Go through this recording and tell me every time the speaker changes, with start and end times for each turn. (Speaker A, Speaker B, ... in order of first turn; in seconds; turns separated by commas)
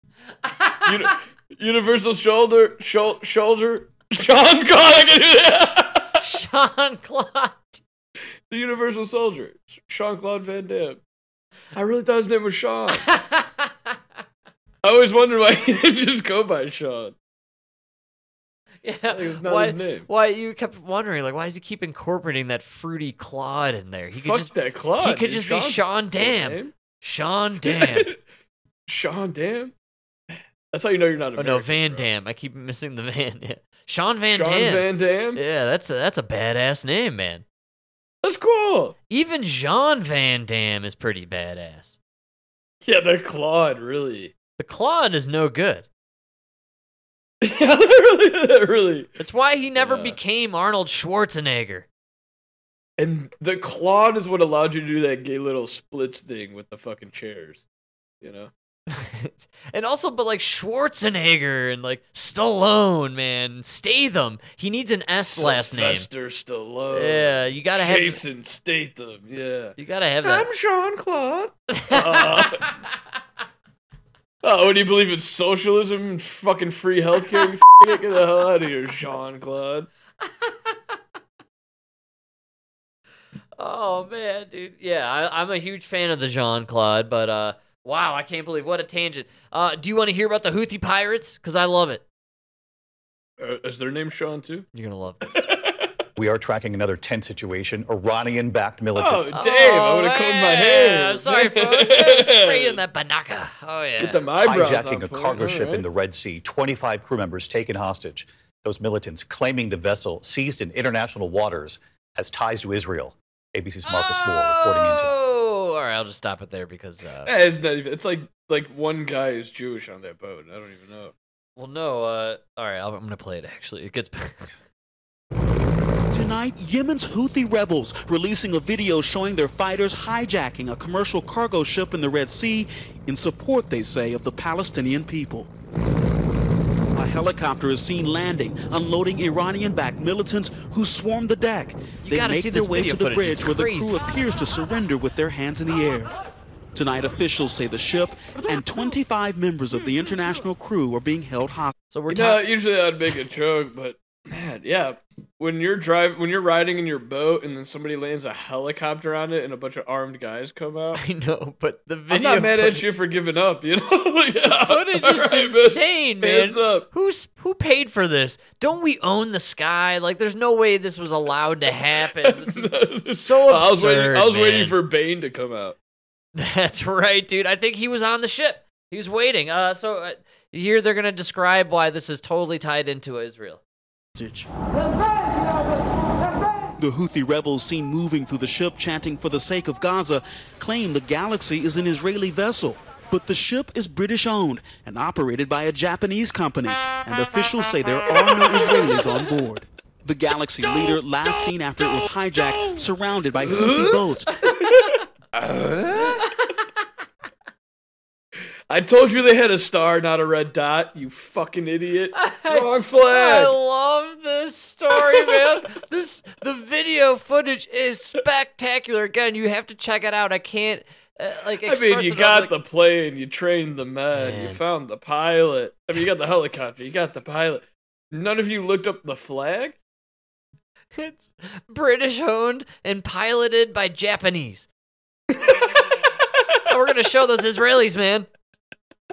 Speaker A: 0.6-0.9, Speaker B: 0.9-6.2, Speaker A: 6.2-7.8, Speaker B: 8.5-11.0, Speaker B: 11.8-13.1, Speaker A: 13.1-13.7, Speaker B: 14.8-17.2, Speaker A: 18.8-28.1, Speaker B: 19.1-20.1, Speaker B: 24.2-26.7, Speaker B: 27.6-28.2, Speaker B: 28.9-29.7, Speaker B: 30.3-32.1, Speaker A: 31.4-34.9, Speaker B: 34.3-35.4, Speaker A: 35.4-37.5, Speaker B: 38.2-39.0, Speaker A: 39.1-42.0, Speaker B: 42.9-44.3, Speaker A: 44.6-45.9, Speaker B: 47.4-49.1, Speaker A: 49.2-51.9, Speaker B: 49.8-50.2, Speaker B: 53.0-57.6, Speaker B: 58.2-58.5, Speaker A: 58.9-66.1, Speaker B: 65.1-72.7, Speaker A: 66.9-68.2, Speaker A: 69.8-70.5, Speaker A: 71.7-72.7, Speaker B: 74.4-79.9, Speaker A: 80.3-80.8, Speaker A: 83.6-92.0, Speaker B: 93.4-94.7, Speaker A: 94.7-95.5, Speaker B: 95.3-95.9, Speaker C: 96.2-99.3, Speaker B: 99.0-102.8, Speaker A: 99.3-104.2, Speaker B: 104.0-105.8, Speaker C: 104.4-115.1, Speaker A: 113.8-117.3, Speaker B: 117.3-121.1, Speaker A: 121.6-124.5, Speaker D: 126.1-135.5, Speaker D: 136.9-146.1, Speaker A: 142.0-144.0, Speaker D: 146.7-151.7, Speaker A: 151.9-152.4, Speaker B: 152.1-161.0, Speaker A: 153.1-153.4, Speaker A: 161.0-162.9, Speaker B: 162.1-166.9, Speaker A: 164.6-174.8, Speaker B: 172.2-175.8, Speaker A: 176.4-183.6, Speaker D: 184.2-184.5, Speaker D: 186.8-204.3, Speaker B: 203.4-206.3, Speaker B: 208.7-213.6, Speaker A: 212.2-222.5, Speaker B: 214.9-215.6, Speaker B: 221.6-229.8, Speaker A: 224.1-224.6, Speaker A: 231.0-234.7, Speaker B: 235.3-236.6, Speaker A: 235.7-236.1, Speaker A: 236.7-238.3